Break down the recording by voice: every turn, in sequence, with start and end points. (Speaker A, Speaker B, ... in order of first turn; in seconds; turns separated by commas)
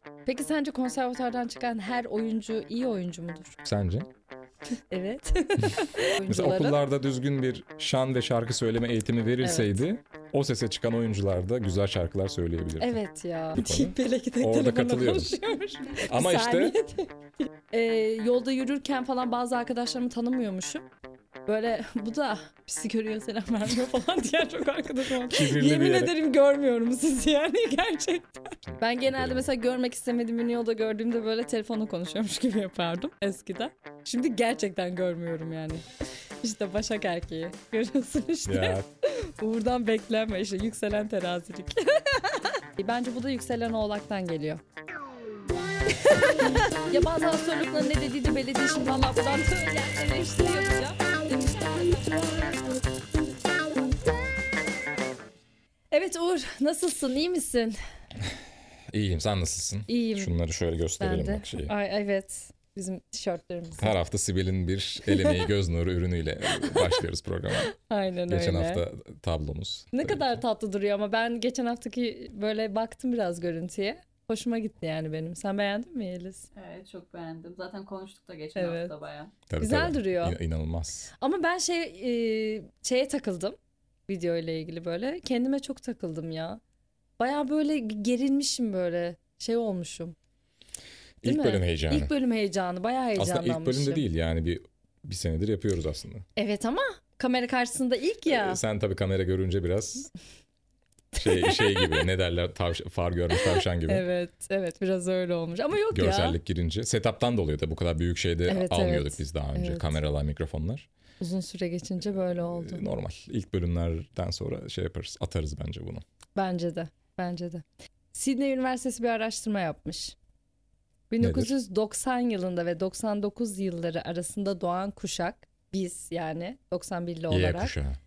Speaker A: 0.3-3.6, Speaker B: 3.6-4.1, Speaker A: 4.9-6.8, Speaker B: 6.3-13.0, Speaker A: 9.4-9.7, Speaker A: 12.8-20.9, Speaker B: 13.6-15.4, Speaker B: 16.0-16.8, Speaker A: 21.5-35.9, Speaker B: 25.2-26.1, Speaker B: 28.7-29.5, Speaker A: 36.4-44.6, Speaker B: 38.5-38.9, Speaker A: 46.0-52.8, Speaker A: 55.9-57.8, Speaker B: 58.9-61.7, Speaker A: 59.9-60.4, Speaker A: 61.0-64.0, Speaker B: 63.8-67.7, Speaker A: 65.1-65.5, Speaker A: 66.6-67.0, Speaker A: 67.6-68.8, Speaker B: 68.3-70.4, Speaker A: 69.9-76.5, Speaker C: 76.5-79.3, Speaker A: 78.5-78.9, Speaker B: 79.5-81.1, Speaker A: 79.6-80.4, Speaker A: 81.2-83.6, Speaker A: 84.1-86.6, Speaker A: 87.2-90.2, Speaker B: 91.2-92.1, Speaker A: 91.2-94.0, Speaker B: 93.2-96.2, Speaker A: 96.4-98.6, Speaker B: 98.3-100.1, Speaker A: 101.2-102.1, Speaker B: 101.2-104.0, Speaker A: 103.9-106.4, Speaker B: 105.9-110.9, Speaker A: 108.5-110.0, Speaker A: 111.2-112.9, Speaker B: 112.4-116.0, Speaker A: 116.4-120.2, Speaker A: 121.1-127.7, Speaker B: 121.2-121.5, Speaker B: 127.3-128.0